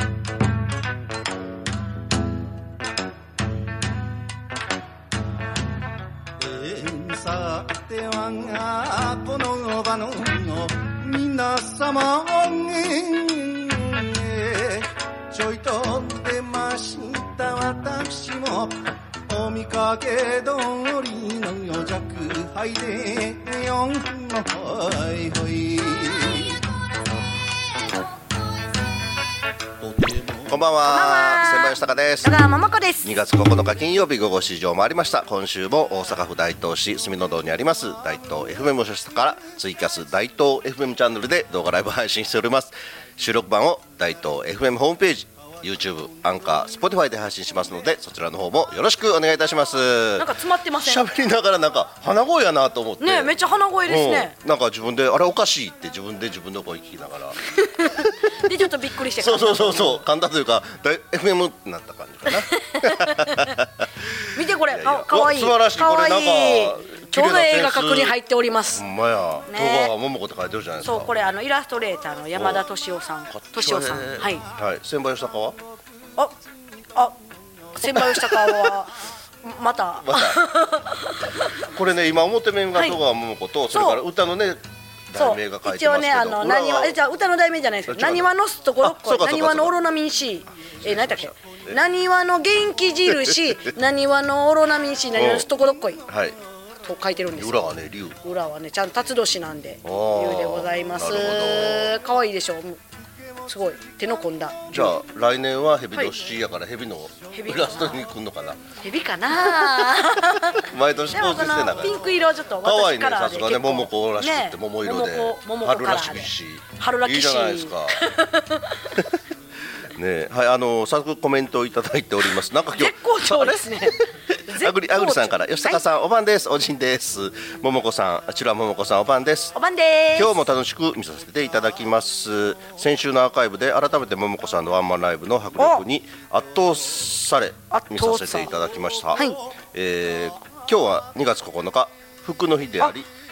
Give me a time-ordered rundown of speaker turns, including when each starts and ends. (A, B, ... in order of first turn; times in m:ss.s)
0:06.4-0:18.8 A
0:19.3-0:26.6 A
0:29.8-0:30.5 A
0:30.5-0:32.4 B
0:30.8-0:33.1 C
0:33.0-0:57.4 B
0:50.2-0:51.0 C
0:53.0-0:54.4 C
0:57.6-1:00.0 C
0:59.2-1:08.2 B
1:02.3-1:03.5 C
1:04.3-1:08.8 C
1:08.7-1:11.1 B
1:09.5-1:09.9 C
1:10.8-1:14.4 C
1:12.4-1:12.6 B
1:13.3-1:15.6 B
1:17.8-1:21.7 C
1:17.8-1:18.7 B
1:20.0-1:20.6 B
1:21.6-1:27.0 B
1:22.8-1:23.0 C
1:23.7-1:24.0 C
1:25.2-1:36.0 C
1:27.9-1:29.8 B
1:30.8-1:31.8 B
1:33.1-1:33.7 B
1:35.2-1:35.5 B
1:36.1-1:36.4 B
1:36.8-1:42.8 C
1:37.4-1:38.2 B
1:39.8-1:42.0 B
1:43.5-1:45.0 C
1:44.7-1:48.6 B
1:47.3-1:48.0 C
1:48.8-1:59.0 C
1:49.3-1:52.1 B
1:52.6-1:58.0 B
1:59.9-2:09.6 B
2:02.7-2:05.8 C
2:09.5-2:10.4 C
2:10.2-2:23.1 B
2:15.6-2:15.8 C
2:17.7-2:18.5 C
2:19.1-2:19.4 C